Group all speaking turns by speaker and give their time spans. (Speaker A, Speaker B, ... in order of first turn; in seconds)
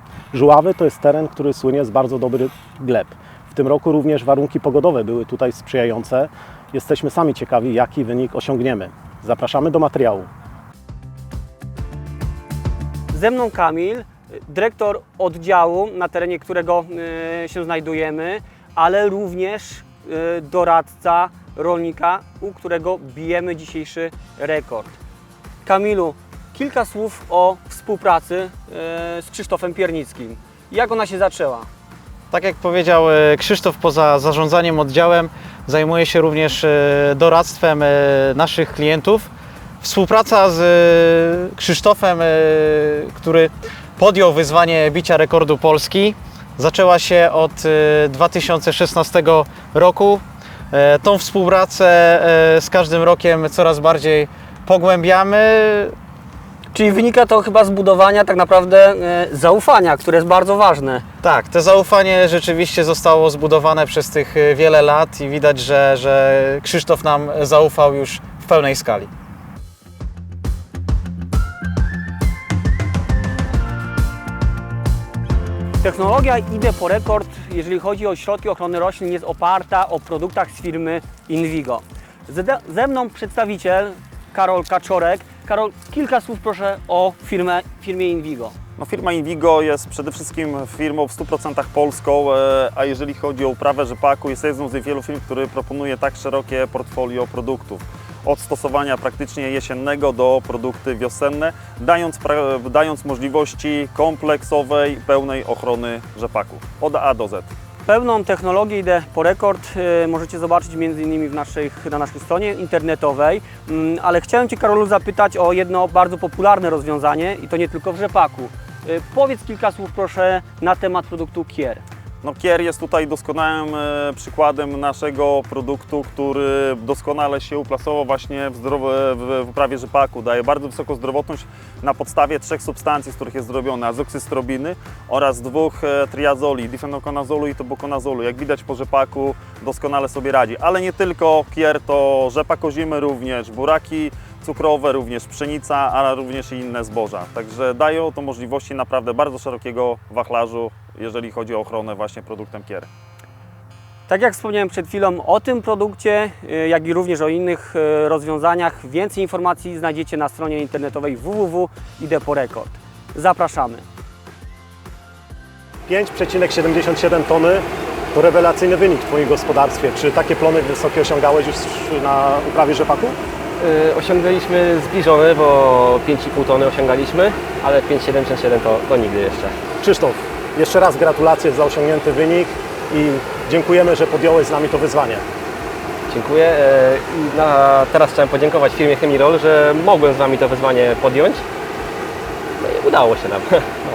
Speaker A: 0.3-10.3, 165.9-173.2, 179.8-185.2
Speaker B: 13.1-25.0, 25.6-31.7, 56.7-61.0, 75.8-88.5, 107.8-121.8, 154.1-163.8
Speaker C: 32.3-39.3, 39.8-55.9, 61.2-69.1
Speaker D: 88.8-107.5, 122.2-152.9
Speaker E: 173.6-179.5, 186.1-191.4, 192.6-193.7